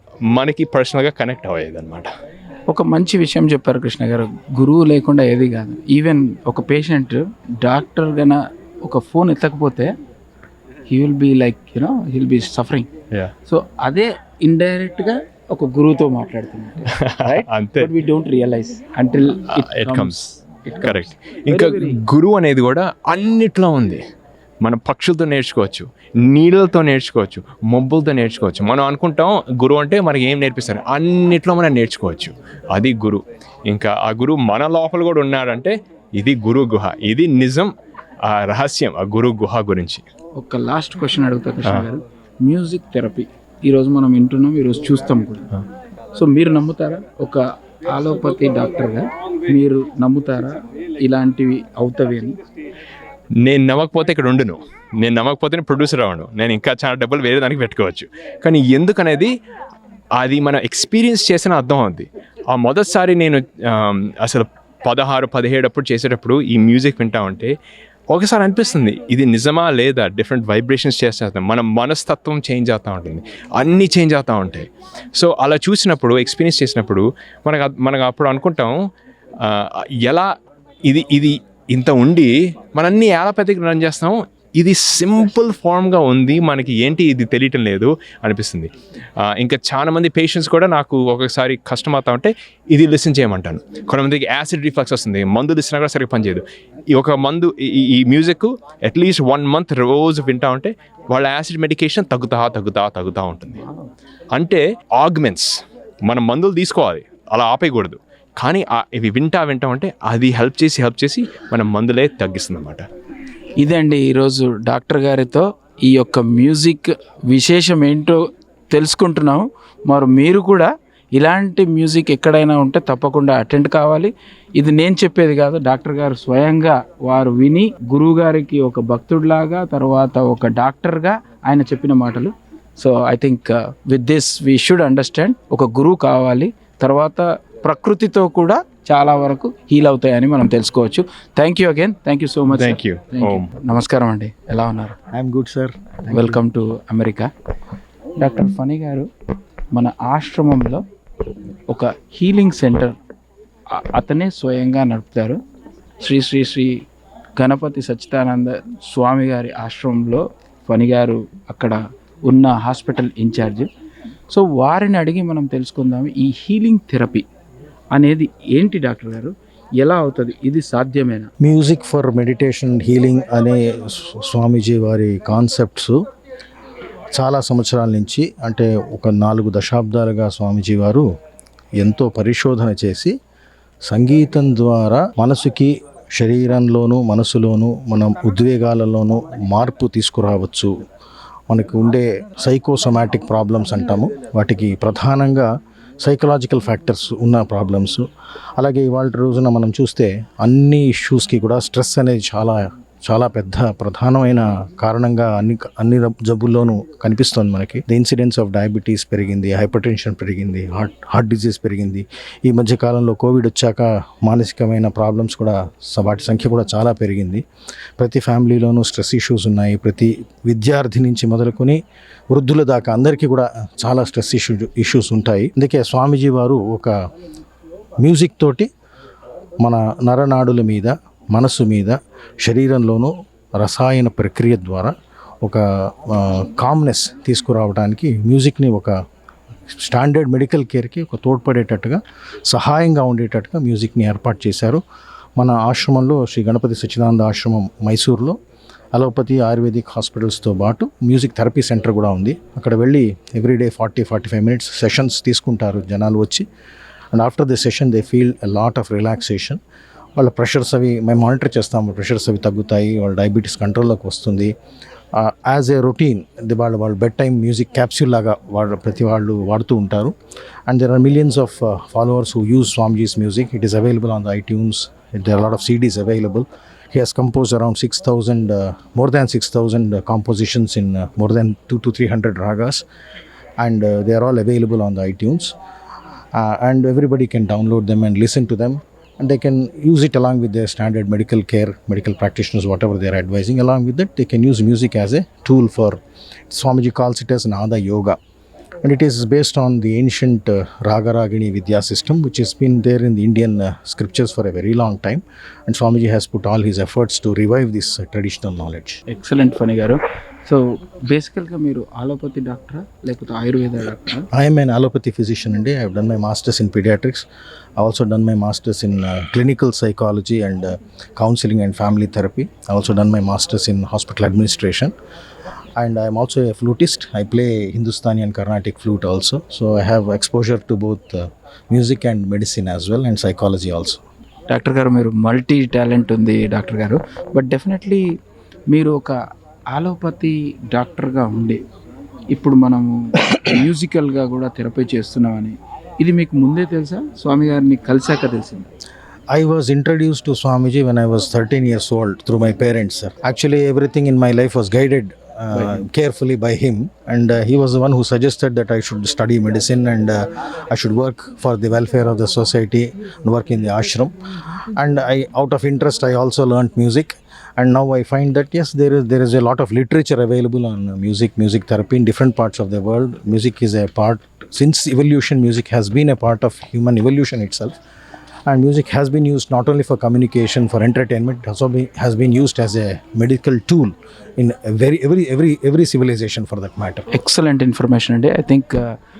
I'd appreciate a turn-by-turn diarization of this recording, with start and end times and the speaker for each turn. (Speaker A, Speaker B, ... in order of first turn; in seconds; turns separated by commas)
Speaker A: 0.3-2.1, Speaker B: 2.7-9.9, Speaker B: 10.9-12.9, Speaker B: 13.5-22.0, Speaker A: 16.9-17.9, Speaker A: 19.5-20.2, Speaker A: 20.8-24.0, Speaker A: 24.6-37.7, Speaker A: 38.2-40.0, Speaker B: 40.4-45.5, Speaker B: 46.1-52.4, Speaker A: 53.4-59.3, Speaker A: 60.1-67.5, Speaker A: 68.1-78.8, Speaker A: 79.4-80.3, Speaker A: 80.9-103.6, Speaker A: 104.3-112.8, Speaker B: 113.6-145.0, Speaker A: 142.5-143.5, Speaker C: 145.1-146.4, Speaker B: 146.1-147.3, Speaker B: 148.2-149.1, Speaker B: 149.7-150.8, Speaker B: 151.7-152.9, Speaker B: 153.7-155.4, Speaker B: 156.0-156.8, Speaker B: 157.4-163.7, Speaker B: 164.3-167.2, Speaker B: 167.9-171.3, Speaker C: 171.4-176.0, Speaker C: 177.1-181.1, Speaker C: 181.8-183.1, Speaker C: 183.9-190.7, Speaker C: 191.5-195.5, Speaker C: 196.0-198.1, Speaker C: 198.6-217.4, Speaker C: 218.0-221.8, Speaker C: 222.3-226.9, Speaker C: 228.0-228.7, Speaker C: 229.6-234.9, Speaker C: 235.4-238.9, Speaker C: 239.7-244.8, Speaker C: 245.4-248.4, Speaker C: 248.9-256.4, Speaker C: 257.1-259.6, Speaker C: 260.2-264.5, Speaker C: 265.1-270.1, Speaker C: 270.7-282.9, Speaker C: 283.6-285.6, Speaker C: 286.3-298.2, Speaker C: 298.8-309.0, Speaker B: 309.1-314.3, Speaker C: 314.3-317.2, Speaker C: 317.8-324.9, Speaker C: 325.8-334.0, Speaker B: 334.5-338.1, Speaker B: 338.7-339.2, Speaker B: 339.7-341.6, Speaker B: 342.3-348.7, Speaker C: 349.3-364.2, Speaker B: 355.5-355.8, Speaker C: 364.8-377.8, Speaker C: 378.5-387.1, Speaker B: 387.1-389.0